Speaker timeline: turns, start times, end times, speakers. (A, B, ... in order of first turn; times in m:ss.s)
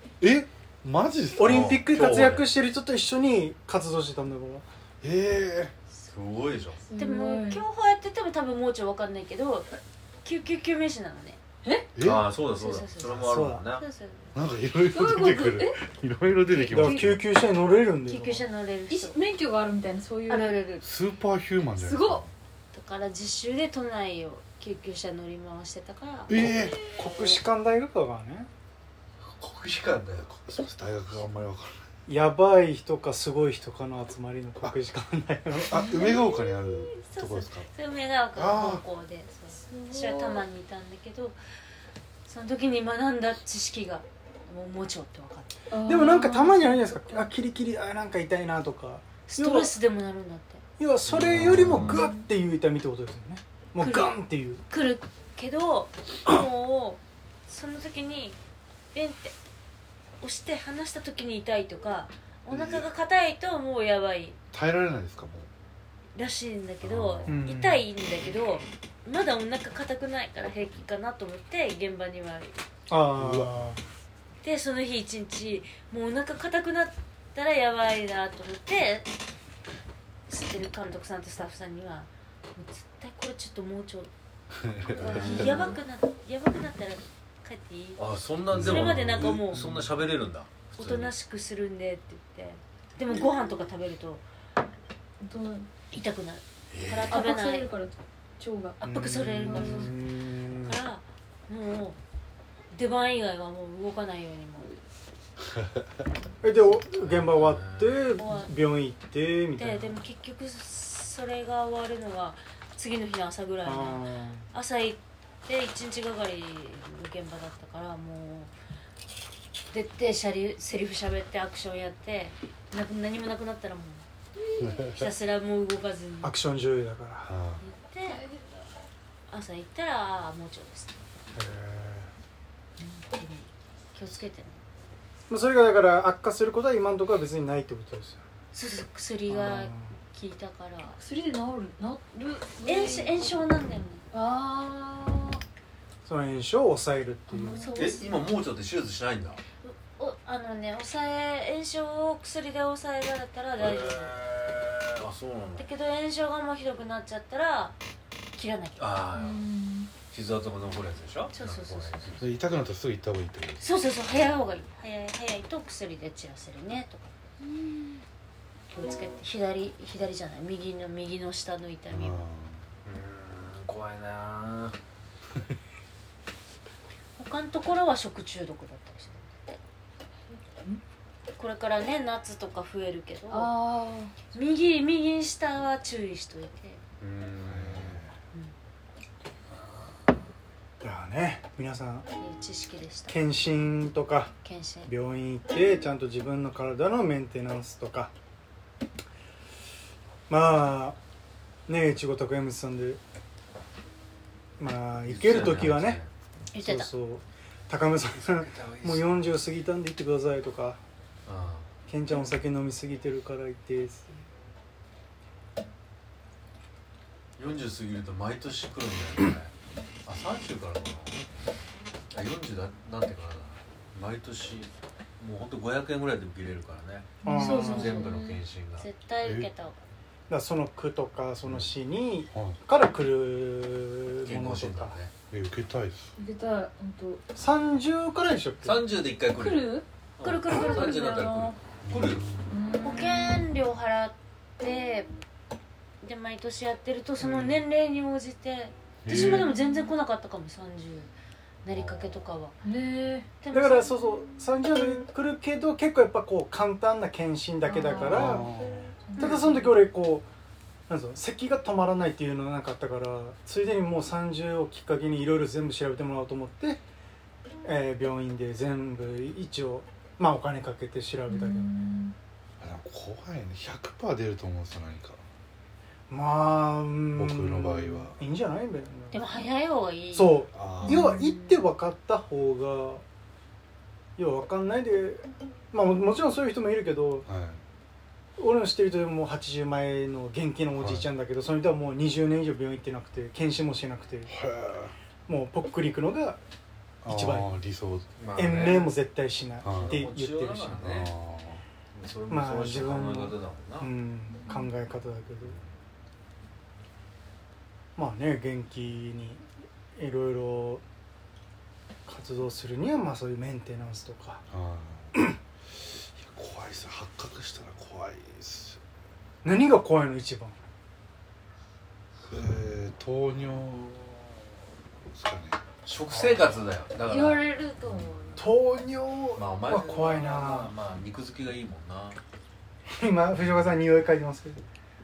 0:00.2-0:01.7 A
0:01.3-0:04.6 B
0:01.4-0:02.5 C
0:05.0-0:05.7 A
0:06.1-0:06.8 C
0:06.8-0:07.6 D
0:07.0-0:09.7 E
0:10.2-0:11.4 E
0:11.6-0:11.9 D
0:12.0-0:12.3 A
0:12.0-0:13.8 C
0:12.5-0:14.3 E
0:13.1-0:13.6 B
0:14.3-0:17.2 A
0:14.9-0:15.8 D
0:16.5-0:17.2 E
0:16.7-0:18.4 B
0:18.0-0:19.2 E
0:18.9-0:20.6 D
0:20.3-0:20.8 E
0:20.8-0:22.3 A
0:21.7-0:22.2 D
0:22.7-0:26.4 E
0:26.3-0:26.8 A
0:26.4-0:28.5 B
0:29.3-0:30.3 C
0:30.3-0:31.8 A
0:32.1-0:35.9 B
0:35.6-0:37.7 A
0:35.8-0:36.2 D
0:36.1-0:41.4 E
0:38.3-0:38.8 A
0:39.6-0:40.4 D
0:42.2-0:45.6 E
0:45.7-0:47.3 D
0:45.8-0:49.7 B
0:49.3-0:50.6 E
0:50.8-0:54.6 B
0:51.1-0:52.0 C
0:51.8-0:52.2 D
0:53.8-0:54.2 E
0:54.7-0:58.4 E
0:58.9-0:59.3 E
1:00.2-1:04.4 E
1:02.5-1:02.9 A
1:04.5-1:05.5 A
1:06.1-1:12.6 E
1:06.8-1:07.3 A
1:07.3-1:07.8 B
1:12.9-1:13.8 B
1:13.2-1:13.7 A
1:14.4-1:19.1 E
1:20.3-1:24.1 E
1:24.7-1:25.3 A
1:24.9-1:25.8 D
1:25.0-1:29.9 E
1:28.0-1:31.1 C
1:28.5-1:29.8 A
1:30.7-1:34.2 E
1:35.2-1:35.7 D
1:35.9-1:37.7 E
1:36.7-1:37.2 C
1:37.1-1:38.8 D
1:38.8-1:39.9 E
1:38.9-1:40.8 B
1:39.4-1:39.9 D
1:40.6-1:42.0 E
1:42.7-1:44.8 E
1:46.4-1:50.0 B
1:46.6-1:48.1 C
1:48.2-1:48.5 E
1:49.6-1:58.5 E
1:53.6-1:54.5 B
1:59.7-2:04.0 E
2:04.5-2:04.8 D
2:04.6-2:05.1 A
2:04.9-2:06.4 E
2:06.2-2:07.3 B
2:07.2-2:07.6 A
2:07.6-2:08.2 E
2:08.0-2:08.7 D
2:09.3-2:11.0 E
2:11.3-2:12.1 B
2:12.8-2:14.6 E
2:15.3-2:18.2 B
2:18.5-2:21.0 E
2:19.3-2:20.0 B
2:21.0-2:23.4 D
2:22.6-2:24.0 E
2:24.1-2:25.4 D
2:26.0-2:27.6 B
2:27.3-2:28.0 D
2:27.5-2:28.1 E
2:27.8-2:29.4 C
2:29.6-2:34.1 E
2:33.6-2:35.6 C
2:35.6-2:37.8 E
2:38.3-2:38.9 E
2:38.8-2:39.4 C
2:39.1-2:39.9 D
2:40.1-2:42.2 C
2:41.3-2:42.2 E
2:42.2-2:43.6 A
2:43.6-2:47.1 E
2:48.7-2:52.2 E
2:51.9-2:52.6 A
2:52.8-2:54.7 C
2:57.2-2:59.6 E
3:00.3-3:00.8 D
3:01.4-3:03.5 E
3:03.3-3:04.2 D
3:04.3-3:06.8 E
3:07.0-3:08.0 C
3:07.4-3:08.1 A
3:10.8-3:12.1 B
3:12.2-3:13.1 E
3:13.1-3:14.3 B
3:14.4-3:14.9 E
3:14.8-3:18.1 B
3:20.3-3:21.0 B
3:21.7-3:23.0 B
3:24.6-3:26.0 B
3:25.1-3:26.1 C
3:26.5-3:26.9 E
3:26.6-3:30.8 B
3:28.1-3:29.4 C
3:31.2-3:31.7 C
3:31.9-3:34.1 B
3:37.4-3:39.5 C
3:40.0-3:41.2 C
3:42.1-3:48.8 C
3:47.2-3:48.4 D
3:47.2-3:48.0 B
3:48.8-3:49.8 E
3:49.2-3:49.5 A
3:50.3-3:55.0 B
3:52.3-3:52.6 A
3:54.2-3:55.1 C
3:55.3-3:56.1 A
3:56.2-3:57.2 D
3:57.3-3:58.8 B
3:58.6-4:02.3 C
3:59.3-3:59.8 D
4:00.2-4:01.0 E
4:00.5-4:01.6 D
4:01.8-4:02.5 A
4:02.5-4:03.3 D
4:02.8-4:05.1 E
4:06.0-4:11.1 E
4:07.2-4:07.6 B
4:09.0-4:09.5 A
4:09.4-4:09.8 D
4:11.6-4:12.5 E
4:11.7-4:12.3 C
4:12.6-4:13.3 D
4:13.4-4:13.9 E
4:13.5-4:18.5 B
4:17.6-4:19.9 D
4:18.0-4:18.8 A
4:19.2-4:20.2 B
4:20.9-4:26.8 B
4:27.6-4:31.7 B
4:31.3-4:32.2 D
4:32.6-4:35.2 A
4:36.1-4:39.2 B
4:37.1-4:38.2 A
4:39.1-4:41.6 E
4:40.1-4:43.0 B
4:40.5-4:41.1 A
4:40.8-4:41.3 D
4:44.2-4:47.3 B
4:47.2-4:47.6 A
4:48.4-4:54.3 B
4:50.8-4:51.1 A
4:54.3-4:54.9 A
4:55.3-4:56.4 B
4:57.0-4:58.1 A
4:57.0-4:57.5 B
4:58.2-4:59.0 C
4:58.3-5:00.8 B
4:59.6-5:00.0 A
4:59.7-5:01.1 C
5:00.8-5:01.6 A
5:01.9-5:03.9 C
5:02.3-5:05.6 B
5:08.0-5:09.4 B
5:10.0-5:10.8 B
5:12.0-5:14.4 B
5:14.5-5:15.1 A
5:15.8-5:18.8 A
5:19.4-5:20.6 B
5:22.3-5:24.2 A
5:25.1-5:25.6 A
5:25.8-5:28.4 C
5:26.1-5:26.5 B
5:27.1-5:28.2 D
5:28.4-5:30.7 B
5:29.4-5:32.2 C
5:32.9-5:34.6 B